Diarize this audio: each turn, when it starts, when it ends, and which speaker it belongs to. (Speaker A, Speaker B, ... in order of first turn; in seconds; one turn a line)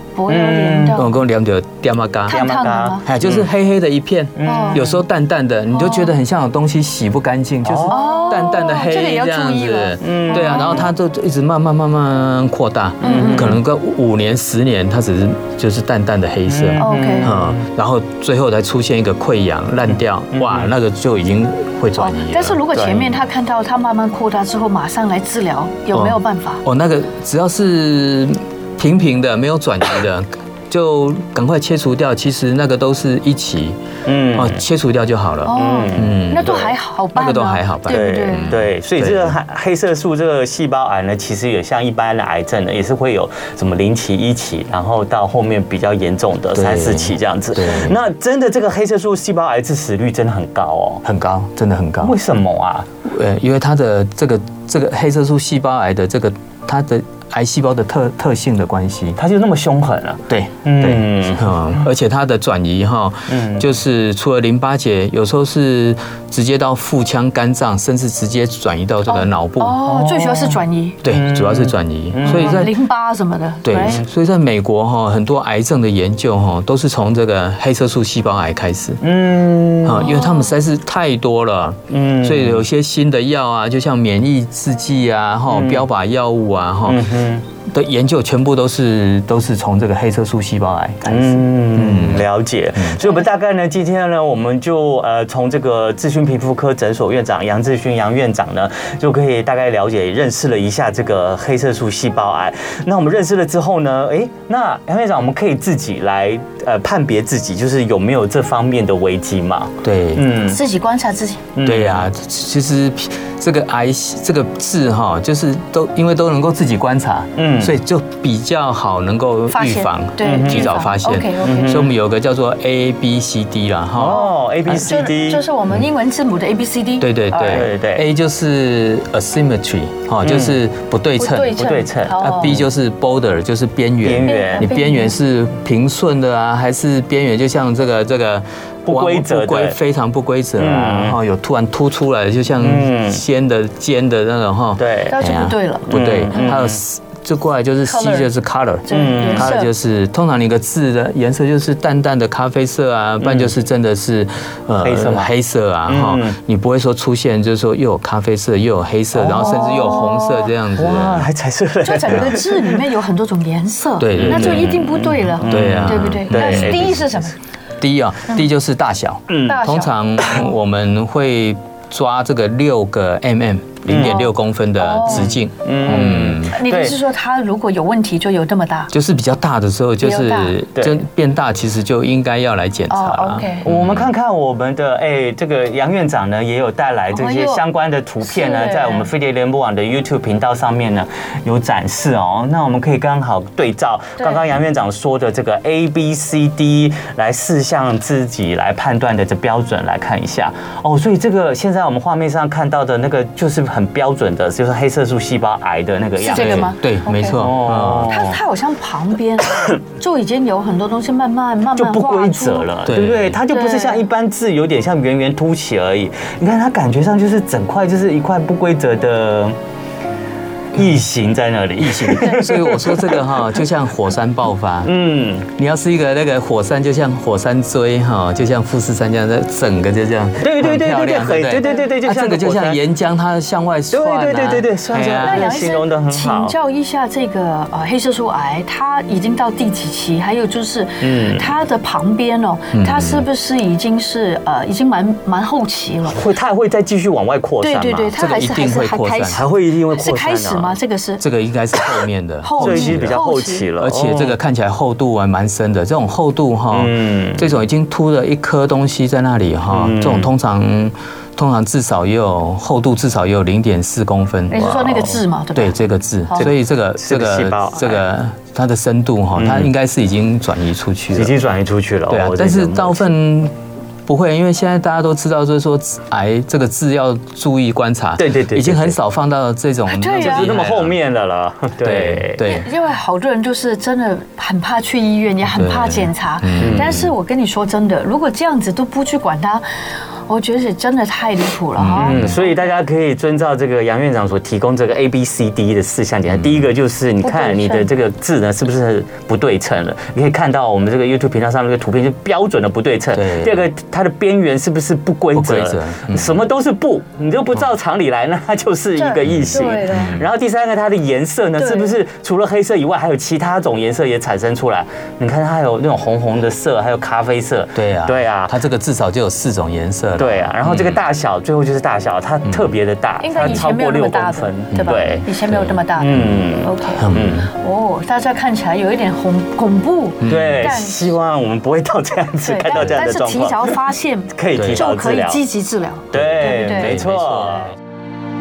Speaker A: 0.1-1.1
Speaker B: 0.3-1.0
Speaker C: 0.9-2.4
Speaker A: 2.3-3.0
Speaker B: 2.3-3.5
Speaker C: 3.0-22.6
Speaker B: 4.4-5.0
Speaker A: 4.4-4.8
Speaker A: 5.7-6.1
Speaker B: 7.6-8.0
Speaker A: 7.9-10.9
Speaker B: 10.0-10.9
Speaker A: 13.0-13.6
Speaker B: 13.0-13.6
Speaker B: 16.5-17.6
Speaker A: 16.8-17.3
Speaker B: 20.3-20.7
Speaker A: 22.0-26.6
Speaker B: 22.7-23.1
Speaker C: 25.9-33.8
Speaker B: 34.0-34.6
Speaker C: 34.3-39.4
Speaker A: 35.5-38.6
Speaker B: 35.5-36.8
Speaker B: 37.9-51.0
Speaker C: 46.5-48.0
Speaker C: 51.0-52.1
Speaker B: 52.0-52.9
Speaker C: 53.0-59.2
Speaker B: 59.2-61.5
Speaker C: 60.3-69.8
Speaker B: 63.3-63.7
Speaker A: 69.1-71.0
Speaker B: 69.8-72.7
Speaker C: 71.0-72.7
Speaker A: 72.2-74.0
Speaker C: 73.6-79.0
Speaker B: 73.8-74.0
Speaker B: 79.0-80.1
Speaker C: 79.8-87.1
Speaker A: 80.0-80.5
Speaker B: 81.9-82.6
Speaker B: 85.5-85.8
Speaker B: 86.8-87.4
Speaker C: 87.7-93.0
Speaker B: 91.0-110.6
Speaker C: 109.8-110.2
Speaker A: 110.5-111.4
Speaker B: 111.5-112.1
Speaker C: 111.6-124.3
Speaker B: 117.3-117.8
Speaker A: 119.5-121.8
Speaker B: 120.2-120.7
Speaker B: 121.4-121.9
Speaker B: 124.0-125.4
Speaker A: 124.1-127.7
Speaker C: 127.0-131.6
Speaker B: 127.5-128.1
Speaker B: 130.2-130.6
Speaker A: 131.2-132.6
Speaker B: 131.6-132.6
Speaker C: 132.2-161.3
Speaker B: 134.0-134.7
Speaker A: 134.2-135.2
Speaker B: 138.8-139.8
Speaker B: 140.6-141.2
Speaker B: 142.6-143.2
Speaker B: 144.8-145.2
Speaker A: 145.1-146.5
Speaker B: 145.9-146.8
Speaker A: 147.8-148.3
Speaker A: 148.9-149.7
Speaker B: 148.9-149.5
Speaker B: 153.2-153.5
Speaker B: 154.8-155.3
Speaker B: 155.8-156.4
Speaker B: 159.1-162.8
Speaker A: 159.4-160.2
Speaker A: 161.8-167.3
Speaker C: 164.0-167.1
Speaker B: 164.2-167.0
Speaker C: 167.8-176.5
Speaker B: 169.3-169.6
Speaker A: 169.4-169.9
Speaker B: 173.8-174.2
Speaker A: 174.0-175.3
Speaker B: 175.1-177.0
Speaker A: 175.9-178.9
Speaker C: 178.9-184.1
Speaker A: 180.0-180.6
Speaker B: 180.8-181.0
Speaker A: 182.9-183.7
Speaker B: 183.6-206.7
Speaker A: 187.1-187.6
Speaker A: 188.2-189.1
Speaker A: 206.2-207.4
Speaker C: 206.3-208.2
Speaker B: 207.3-208.4
Speaker A: 208.1-212.7
Speaker B: 209.4-209.8
Speaker B: 211.8-219.6
Speaker C: 212.8-213.4
Speaker A: 213.5-214.0
Speaker B: 220.7-223.3
Speaker C: 221.8-224.9
Speaker B: 224.8-225.5
Speaker C: 225.6-235.5
Speaker B: 230.4-232.8
Speaker B: 233.9-236.5
Speaker A: 235.2-246.2
Speaker B: 241.0-241.5
Speaker C: 242.7-243.2
Speaker B: 246.1-248.2
Speaker A: 247.6-251.2
Speaker C: 248.2-249.4
Speaker B: 249.3-250.8
Speaker C: 251.2-253.2
Speaker A: 252.4-253.7
Speaker B: 252.6-254.3
Speaker C: 253.8-271.3
Speaker B: 256.7-257.5
Speaker B: 259.7-260.3
Speaker A: 264.5-266.5
Speaker B: 266.3-268.0
Speaker B: 269.4-269.7
Speaker B: 271.1-273.1
Speaker C: 272.1-273.5
Speaker C: 274.1-280.9
Speaker B: 278.2-279.0
Speaker A: 279.9-280.5
Speaker B: 280.1-282.4
Speaker C: 281.8-282.7
Speaker A: 282.4-289.6
Speaker C: 285.5-287.1
Speaker B: 286.6-287.0
Speaker A: 290.3-292.7
Speaker C: 291.8-292.4
Speaker B: 292.0-318.6
Speaker C: 296.3-296.6
Speaker A: 297.2-297.9
Speaker C: 303.1-303.7
Speaker C: 305.3-306.4
Speaker A: 309.0-310.2
Speaker C: 309.3-310.2
Speaker A: 311.6-311.9
Speaker C: 317.7-321.0
Speaker B: 320.2-325.3
Speaker A: 323.2-331.1
Speaker C: 325.5-326.4
Speaker B: 326.0-327.5
Speaker C: 327.0-327.5
Speaker C: 330.2-330.7
Speaker B: 330.2-333.8
Speaker A: 332.4-336.9
Speaker B: 334.3-335.4
Speaker C: 334.5-334.8
Speaker B: 336.1-337.7
Speaker C: 336.1-337.7